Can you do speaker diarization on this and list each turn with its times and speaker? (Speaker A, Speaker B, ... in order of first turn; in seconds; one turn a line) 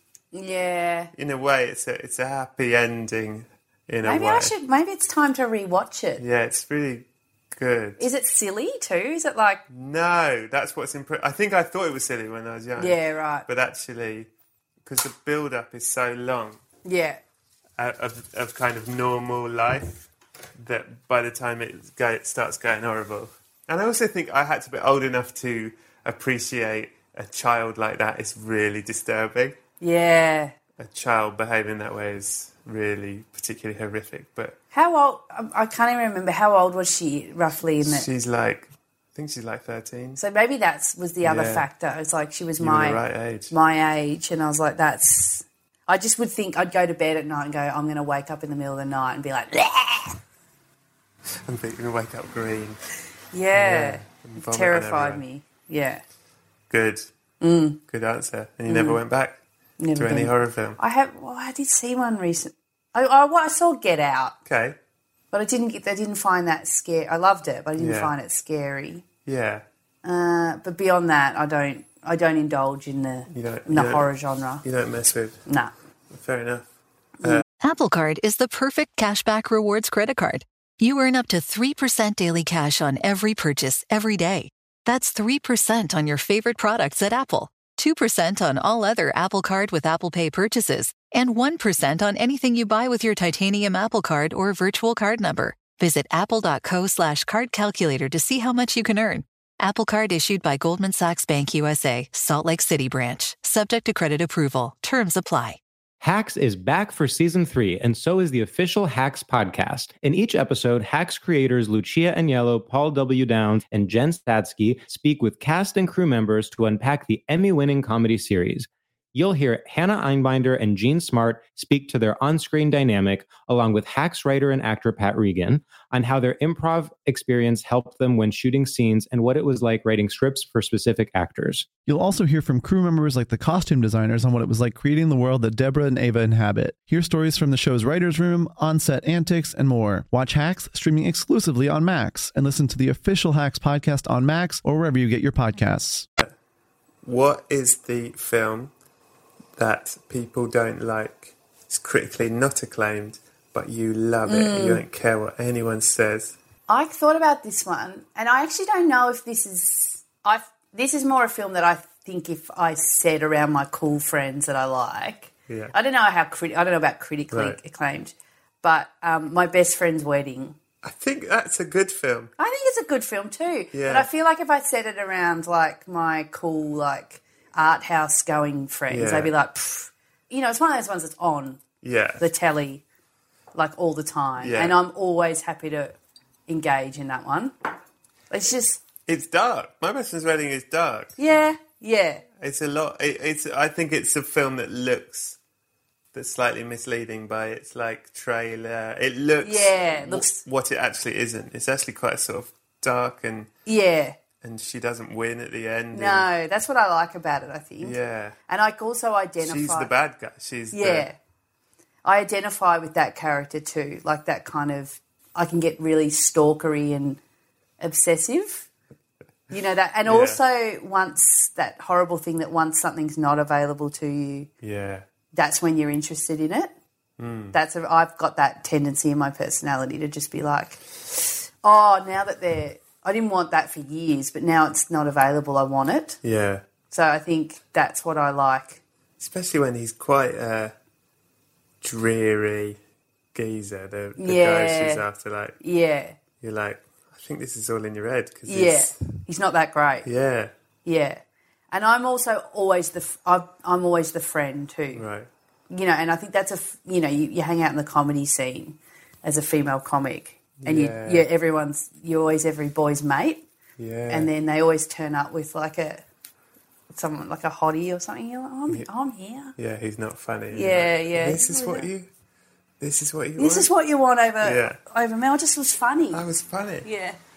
Speaker A: 0.3-1.1
Speaker B: 1.1-4.5
Speaker A: 4.0-6.2
Speaker B: 6.2-8.0
Speaker A: 8.0-9.6
Speaker B: 9.7-14.3
Speaker A: 12.8-13.5
Speaker B: 14.8-16.6
Speaker A: 16.8-17.2
Speaker B: 17.8-20.0
Speaker B: 20.6-29.6
Speaker A: 29.8-30.5
Speaker B: 30.8-34.6
Speaker A: 34.7-38.1
Speaker B: 37.8-40.2
Speaker A: 40.2-50.2
Speaker B: 41.2-41.6
Speaker B: 42.6-43.5
Speaker B: 51.4-52.8
Speaker A: 53.3-56.0
Speaker B: 53.5-55.2
Speaker B: 56.7-57.1
Speaker A: 57.4-57.8
Speaker B: 57.9-59.4
Speaker A: 58.7-59.0
Speaker A: 59.8-64.3
Speaker B: 60.0-60.8
Speaker B: 64.5-64.8
Speaker A: 65.3-69.0
Speaker B: 67.8-68.1
Speaker B: 69.2-69.6
Speaker A: 70.0-74.6
Speaker B: 73.3-74.1
Speaker B: 74.6-75.4
Speaker A: 75.5-75.7
Speaker B: 76.1-76.7
Speaker C: 77.6-105.6
Speaker D: 106.0-131.7
Speaker E: 131.8-146.1
Speaker B: 147.0-148.7
Speaker B: 149.6-156.3
Speaker A: 154.2-154.8
Speaker A: 156.7-170.6
Speaker B: 165.5-165.7
Speaker B: 167.3-167.6
Speaker B: 170.8-172.3
Speaker A: 172.4-181.6
Speaker B: 173.7-174.1
Speaker B: 178.9-179.3
Speaker B: 181.8-182.2
Speaker A: 182.2-182.8
Speaker A: 183.5-185.9
Speaker B: 184.4-184.7
Speaker A: 186.5-187.5
Speaker A: 188.3-188.8
Speaker B: 189.1-191.1
Speaker A: 191.2-192.2
Speaker B: 192.4-195.4
Speaker B: 196.1-203.5
Speaker A: 199.4-200.4
Speaker A: 203.7-204.2
Speaker B: 204.4-206.3
Speaker A: 205.9-207.9
Speaker B: 207.8-208.4
Speaker A: 208.5-209.9
Speaker B: 209.4-211.1
Speaker A: 210.7-211.2
Speaker A: 212.0-217.2
Speaker A: 217.8-218.7
Speaker A: 219.5-224.5
Speaker B: 220.1-220.4
Speaker B: 224.6-225.1
Speaker A: 225.3-226.7
Speaker B: 227.2-227.5
Speaker A: 227.5-236.2
Speaker B: 236.2-236.6
Speaker A: 236.9-238.8
Speaker B: 239.2-240.7
Speaker B: 241.8-242.8
Speaker B: 243.3-245.6
Speaker A: 244.2-245.0
Speaker A: 245.6-246.2
Speaker B: 246.4-249.0
Speaker A: 248.5-250.1
Speaker B: 250.0-250.5
Speaker A: 250.8-255.0
Speaker B: 254.9-255.3
Speaker A: 255.7-263.4
Speaker B: 260.6-261.2
Speaker B: 263.8-264.3
Speaker A: 264.1-266.0
Speaker A: 266.9-269.5
Speaker B: 269.6-272.1
Speaker A: 270.5-271.9
Speaker B: 272.8-273.7
Speaker A: 273.4-276.2
Speaker B: 274.4-274.8
Speaker B: 276.1-276.9
Speaker A: 276.8-277.2